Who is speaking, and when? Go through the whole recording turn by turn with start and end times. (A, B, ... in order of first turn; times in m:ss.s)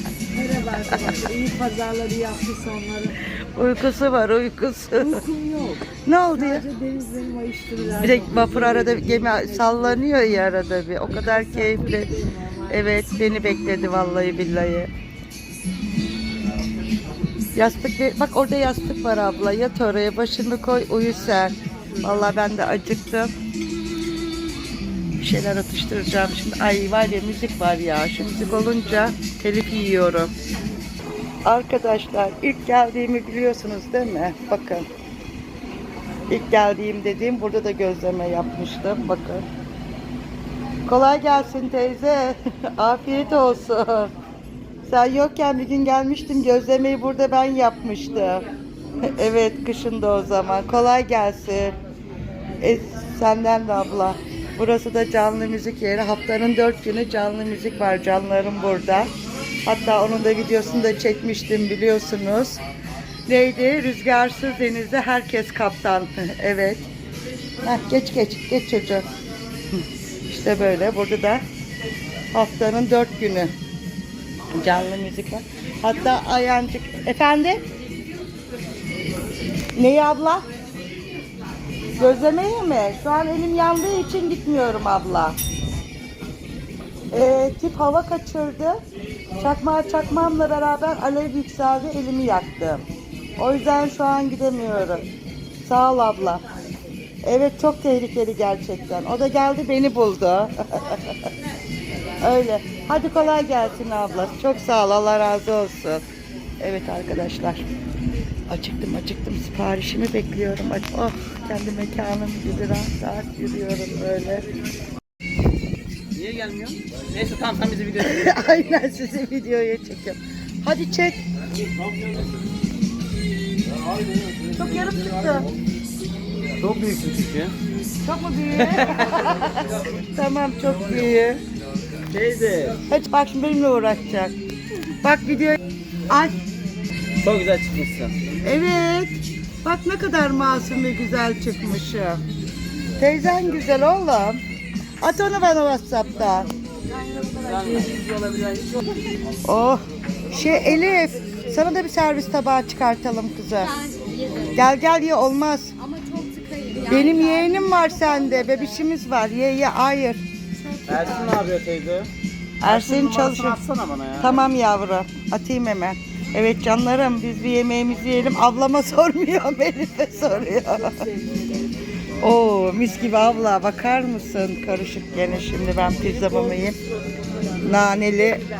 0:00.3-0:03.2 A
0:03.3-0:05.2 B
0:05.1-0:05.8 A
0:06.0-0:06.7 B
0:06.5-0:09.7 A
0:08.0-0:14.9 B
0:11.3-0:11.8 A
0:12.3-0:12.6 A
0:17.5-0:23.3 B
0:25.2-0:30.3 B
0:31.4-0:34.8 B
0:36.3-0:39.4 B
0:40.8-0:44.1 B
0:44.8-0:48.4 B
0:49.0-0:51.8 B
0:52.6-0:59.1 B
0:59.6-1:02.6 B
1:03.3-1:06.9 B
1:07.6-1:09.1 B
1:09.7-1:11.4 B
1:12.3-1:13.5 B
1:14.5-1:17.6 B
1:19.7-1:20.5 B
1:22.0-1:25.4 B
1:27.1-1:28.8 B
1:29.4-1:32.8 B
1:33.4-1:35.1 B
1:35.6-1:36.4 B
1:37.2-1:41.3 B
1:42.2-1:46.0 B
1:46.6-1:47.6 B
1:48.5-1:54.5 B
1:56.1-1:58.3 C
1:58.0-2:01.2 B
2:04.5-2:05.5 B
2:06.6-2:07.5 C
2:08.0-2:11.4 B
2:08.7-2:09.2 C
2:12.1-2:12.8 C
2:12.9-2:14.3 B
2:15.0-2:16.4 B
2:17.2-2:18.3 C
2:18.4-2:22.2 B
2:23.0-2:24.4 B
2:25.0-2:26.5 B
2:26.9-2:29.0 C
2:29.4-2:33.8 B
2:33.8-2:34.4 A
2:34.4-2:36.0 B
2:35.9-2:36.9 A
2:36.8-2:40.2 B
2:40.8-2:42.1 C
2:42.6-2:43.6 B
2:42.6-2:44.4 C
2:44.2-2:51.1 B
2:52.2-2:56.8 B
2:57.6-2:58.4 B